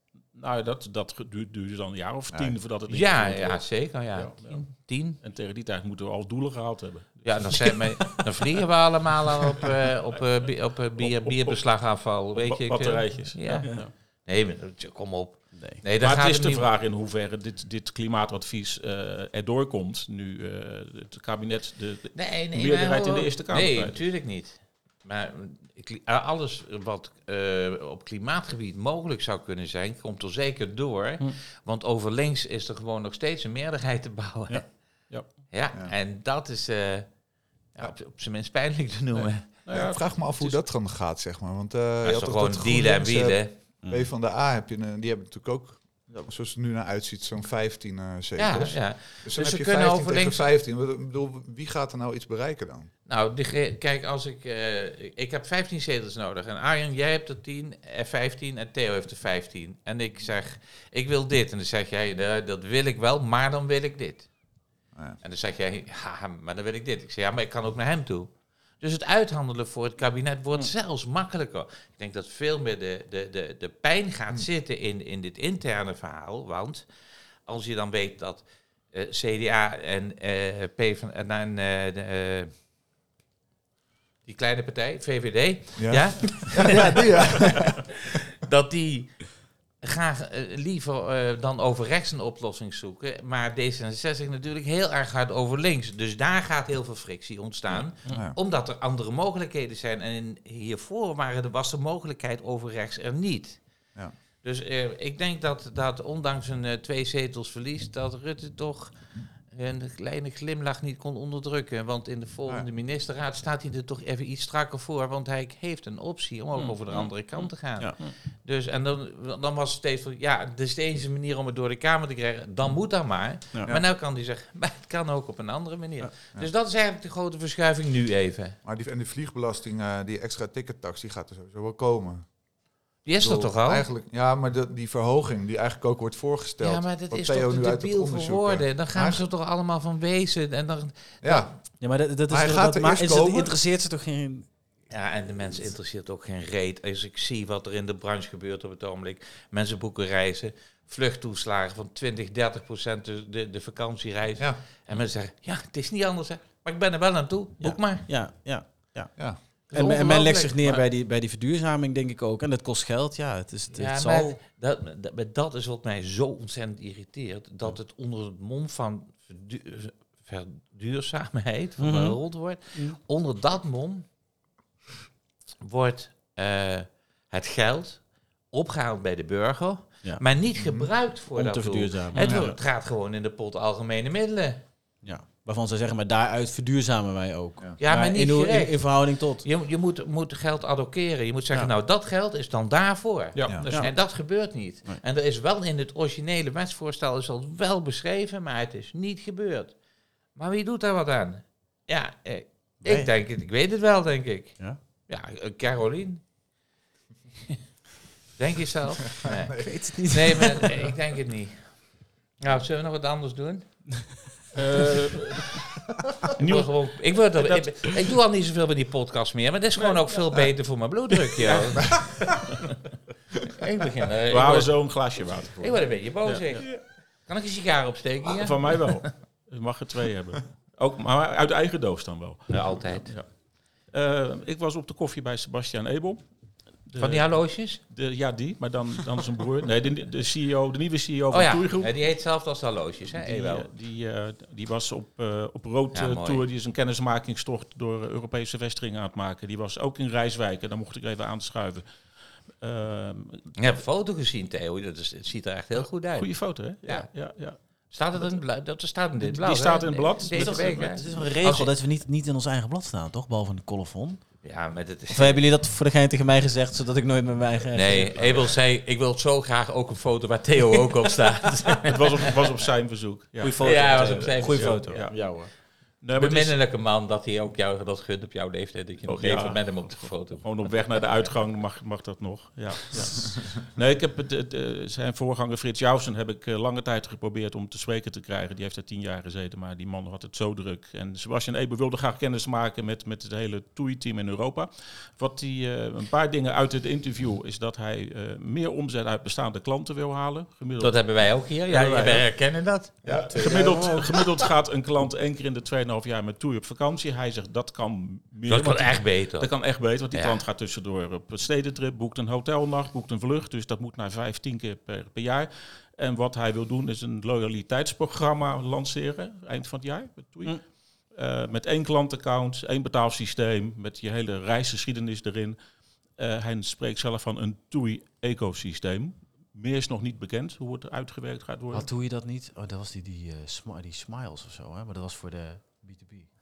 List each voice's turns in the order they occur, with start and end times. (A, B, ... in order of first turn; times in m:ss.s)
0:00.3-0:07.8 A
0:02.3-0:02.6 B
0:02.9-0:05.2 C
0:07.2-0:16.6 C
0:09.7-0:13.9 A
0:15.5-0:15.8 D
0:16.0-0:24.0 A
0:22.1-0:37.2 C
0:37.8-0:39.5 C
0:39.2-0:40.6 A
0:39.7-0:52.9 B
0:42.0-0:43.5 C
0:43.8-0:44.1 D
0:48.4-0:50.5 C
0:53.1-1:04.3 C
1:05.2-1:16.8 C
1:17.5-1:22.5 C
1:24.2-1:43.6 C
1:25.8-1:27.8 B
1:26.7-1:27.0 D
1:38.1-1:38.4 B
1:44.4-1:48.9 C
1:49.5-2:08.6 C
1:56.6-1:58.1 A
2:08.6-2:12.4 B
2:13.0-2:13.8 C
2:13.2-2:19.2 B
2:16.6-2:21.5 C
2:21.2-2:21.6 B
2:21.8-2:24.5 D
2:22.3-2:23.5 B
2:24.9-2:38.1 C
2:37.6-2:44.4 D
2:39.7-2:40.8 C
2:43.7-2:54.1 C
2:51.8-2:52.2 D
2:55.6-3:04.6 C
3:00.6-3:00.9 B
3:01.3-3:02.6 D
3:02.1-3:02.5 A
3:05.0-3:09.4 D
3:07.8-3:19.8 C
3:13.4-3:13.9 A
3:13.7-3:14.0 D
3:20.4-3:26.2 C
3:22.8-3:23.1 D
3:28.4-3:33.9 C
3:29.2-3:29.8 B
3:29.6-3:30.8 D
3:34.5-3:35.7 A
3:36.3-3:38.1 A
3:36.4-3:42.4 C
3:39.8-3:40.2 A
3:41.3-3:42.5 A
3:43.5-3:44.9 C
3:44.3-3:46.8 A
3:45.6-3:49.0 C
3:48.4-3:56.2 A
3:52.5-3:53.1 C
3:56.8-4:01.9 A
3:57.0-3:57.8 C
4:01.3-4:03.7 C
4:03.1-4:11.8 A
4:05.9-4:06.4 C
4:12.6-4:13.5 A
4:13.6-4:17.1 C
4:15.8-4:18.4 A
4:17.6-4:21.7 C
4:19.2-4:21.2 A
4:20.3-4:24.4 D
4:24.4-4:25.4 C
4:25.1-4:28.6 D
4:27.7-4:32.3 C
4:31.9-4:36.6 A
4:33.4-4:35.5 D
4:33.5-4:35.1 C
4:36.2-4:40.6 C
4:39.1-5:02.2 A
5:00.8-5:03.0 C
5:03.0-5:04.0 B
5:03.1-5:25.6 A
5:03.1-5:04.1 D
5:08.5-5:09.5 C
5:10.1-5:10.4 C
5:26.1-5:31.9 A
5:31.7-5:36.3 D